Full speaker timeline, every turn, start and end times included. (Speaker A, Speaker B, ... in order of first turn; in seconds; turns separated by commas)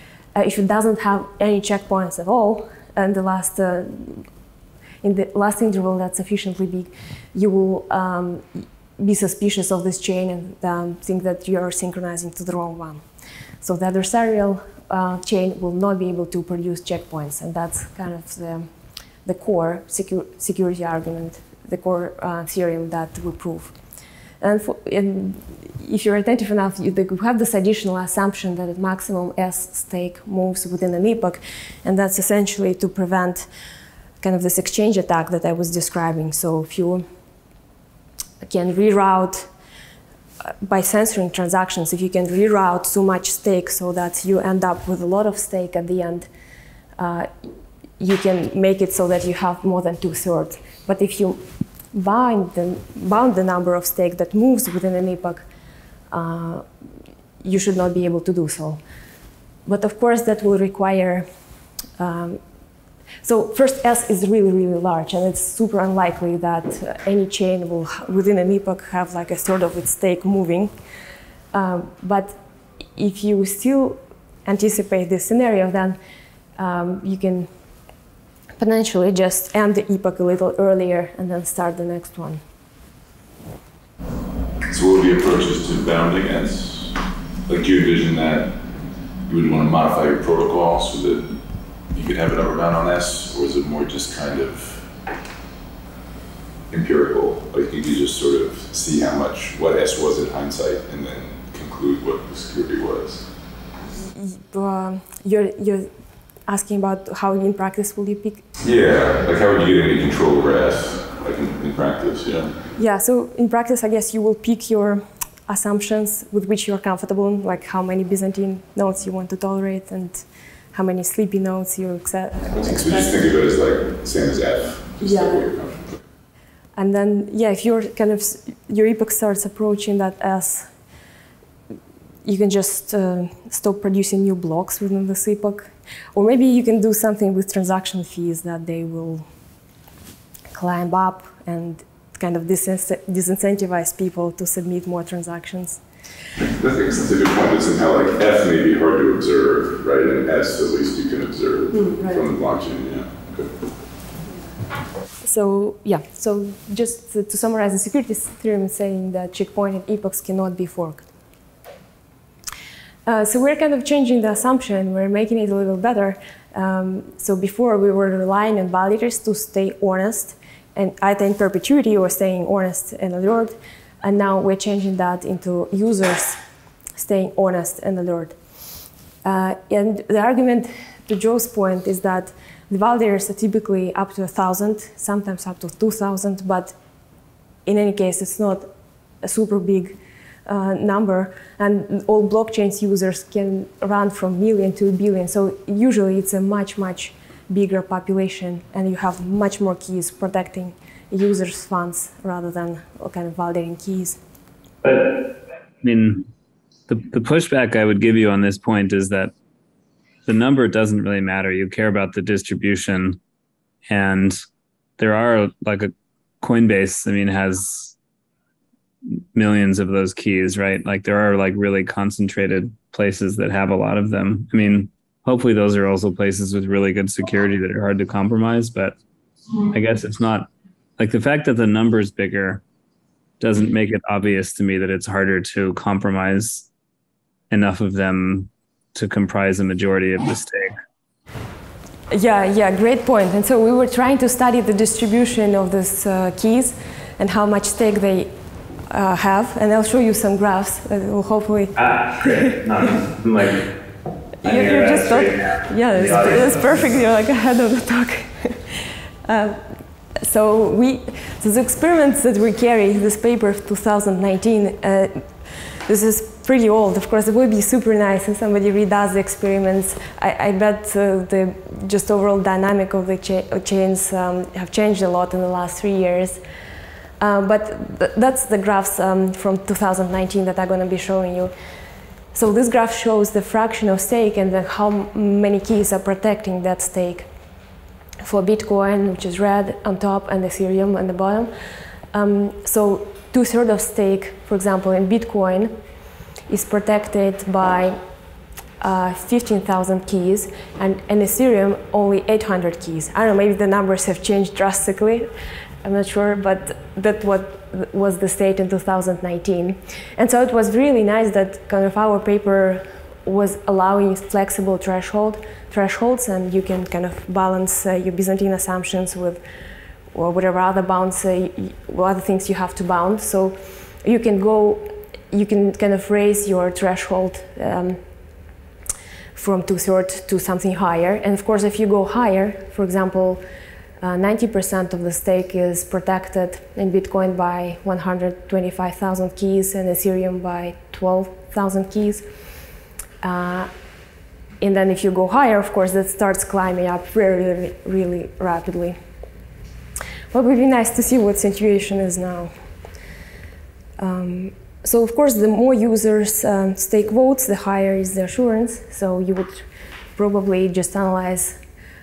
Speaker A: 0.3-4.2, Speaker A: 5.0-13.0, Speaker A: 13.6-18.7, Speaker A: 19.2-23.8, Speaker A: 24.4-33.5, Speaker A: 34.2-37.0, Speaker A: 38.4-39.5, Speaker A: 40.5-46.3, Speaker A: 47.0-47.3, Speaker A: 48.0-51.4, Speaker A: 51.9-55.5, Speaker A: 56.1-56.6, Speaker A: 57.4-58.8, Speaker A: 59.7-61.3, Speaker A: 62.0-62.4, Speaker A: 63.2-70.7, Speaker A: 71.5-72.4, Speaker A: 73.0-76.0, Speaker A: 76.6-77.5, Speaker A: 78.6-82.4, Speaker B: 84.6-87.0, Speaker B: 87.5-88.6, Speaker B: 89.3-91.4, Speaker B: 91.9-94.8, Speaker B: 96.7-103.3, Speaker A: 104.0-105.9, Speaker A: 106.5-108.5, Speaker B: 108.6-112.5, Speaker A: 112.8-123.2, Speaker B: 122.5-126.0, Speaker A: 125.0-125.5, Speaker A: 126.8-130.7, Speaker A: 132.2-139.3, Speaker A: 140.5-145.8, Speaker B: 146.4-153.5, Speaker A: 151.7-152.2, Speaker A: 155.2-161.1, Speaker A: 163.1-176.4, Speaker A: 177.0-178.4, Speaker A: 179.2-186.8, Speaker A: 187.7-188.7, Speaker A: 189.2-204.2, Speaker C: 204.8-205.3, Speaker C: 205.8-206.3, Speaker C: 206.9-209.3, Speaker C: 210.3-213.2, Speaker C: 213.9-214.4, Speaker C: 215.0-217.9, Speaker C: 219.3-229.0, Speaker C: 229.7-232.6, Speaker C: 233.4-236.7, Speaker C: 237.5-240.7, Speaker A: 242.1-248.3, Speaker A: 248.9-252.7, Speaker C: 251.8-253.7, Speaker A: 254.4-259.6, Speaker C: 254.4-256.6, Speaker A: 260.2-265.3, Speaker A: 265.9-276.4, Speaker A: 277.2-281.5, Speaker A: 282.3-287.3, Speaker A: 288.2-291.5, Speaker A: 292.1-295.7, Speaker A: 296.5-298.0, Speaker A: 298.8-305.3, Speaker A: 305.8-319.4, Speaker A: 320.1-328.0, Speaker A: 329.4-333.4, Speaker A: 334.0-342.2, Speaker A: 343.2-343.7, Speaker A: 344.6-349.0, Speaker A: 350.3-352.5, Speaker A: 354.0-359.6, Speaker A: 360.1-361.6